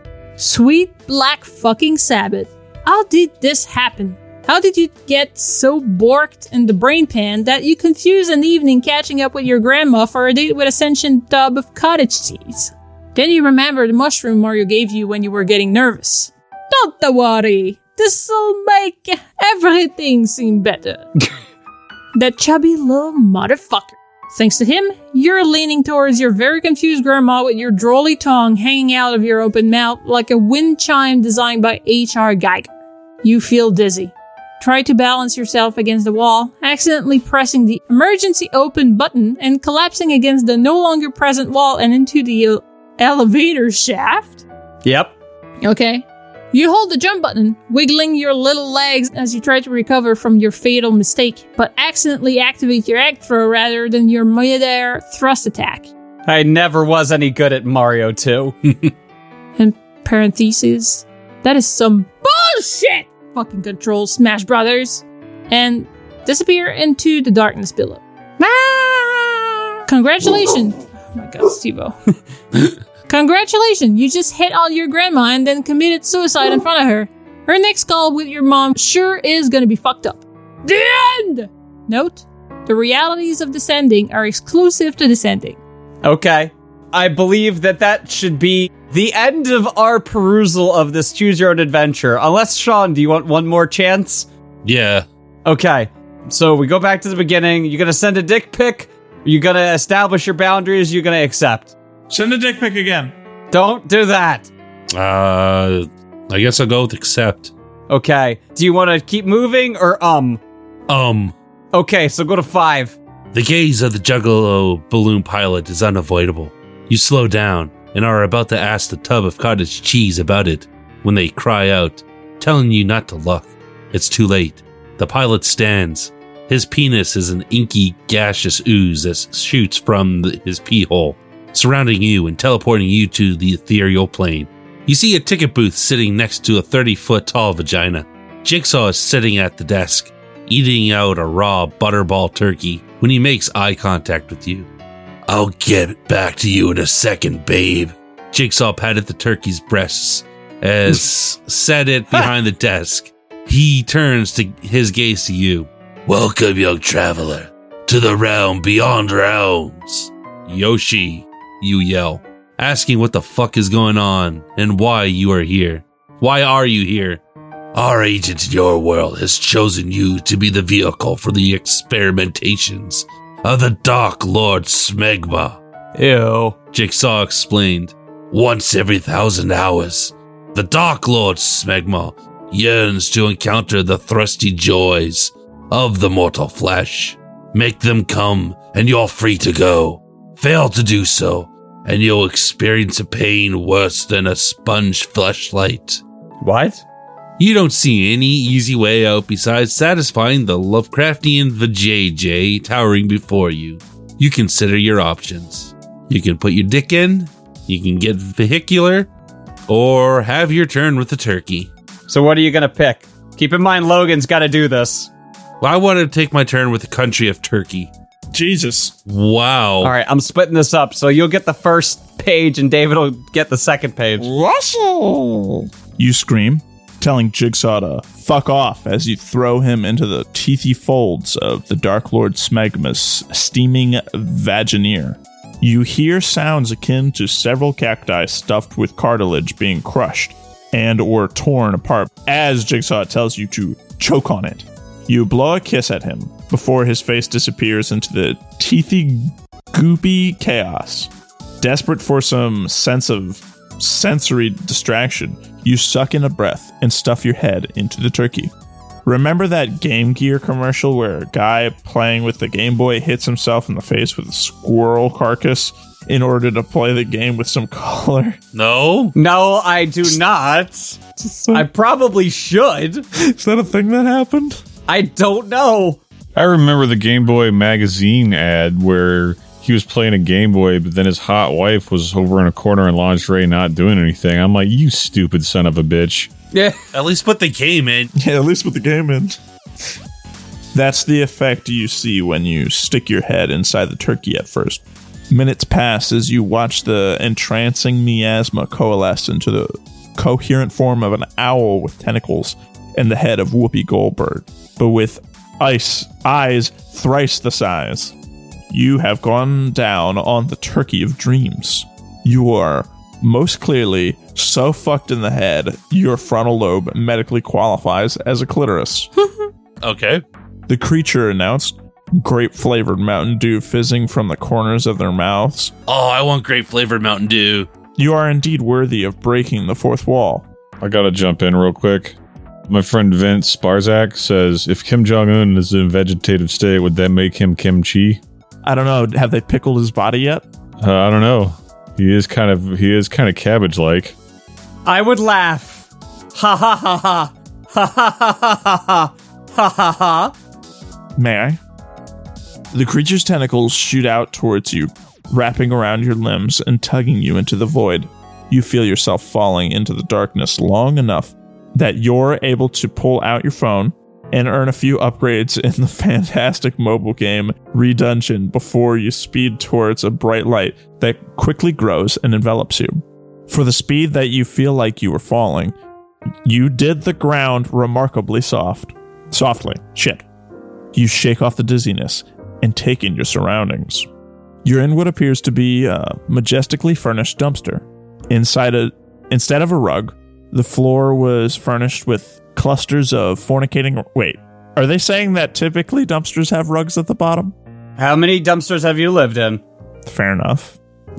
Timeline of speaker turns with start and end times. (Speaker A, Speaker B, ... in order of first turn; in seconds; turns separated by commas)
Speaker A: 0.4-21.1, Speaker A: 22.1-32.7, Speaker A: 33.2-44.4, Speaker B: 44.8-45.1, Speaker A: 45.6-55.9, Speaker B: 56.3-58.9, Speaker A: 59.5-68.5, Speaker B: 68.4-69.4, Speaker A: 69.9-71.9, Speaker A: 73.1-85.6, Speaker B: 86.0-94.3, Speaker C: 94.6-95.0, Speaker B: 95.4-101.7, Speaker D: 102.1-103.1, Speaker B: 103.5-104.5, Speaker C: 104.9-107.5, Speaker B: 107.9-110.4, Speaker C: 110.9-111.3, Speaker B: 111.7-113.0, Speaker C: 113.3-144.7, Speaker C: 145.3-167.2, Speaker C: 167.7-175.6, Speaker B: 175.9-176.6, Speaker C: 176.7-196.0, Speaker B: 196.4-196.8, Speaker C: 197.4-209.1, Speaker C: 209.7-211.7, Speaker B: 212.1-215.1, Speaker C: 215.6-217.9, Speaker D: 218.3-218.9, Speaker C: 219.1-219.9, Speaker B: 219.8-224.3, Speaker D: 224.2-258.5, Speaker D: 259.0-268.4, Speaker C: 268.5-269.1, Speaker B: 269.1-273.1, Speaker D: 271.2-271.7, Speaker D: 273.1-274.6, Speaker B: 274.9-276.0, Speaker E: 276.3-286.3, Speaker B: 286.5-286.8, Speaker C: 286.9-288.1, Speaker D: 288.1-289.4, Speaker D: 290.7-308.1, Speaker D: 308.7-319.1, Speaker C: 319.8-320.2, Speaker D: 320.7-325.7, Speaker C: 325.9-327.7, Speaker D: 328.0-330.4, Speaker E: 330.8-332.2, Speaker E: 332.7-338.2, Speaker D: 338.6-340.4, Speaker E: 340.8-344.1, Speaker B: 344.9-350.3, Speaker D: 351.1-351.6, Speaker D: 352.7-375.7, Speaker D: 376.4-380.2, Speaker D: 380.9-384.1, Speaker D: 384.6-397.5, Speaker B: 398.0-399.6, Speaker D: 400.1-400.8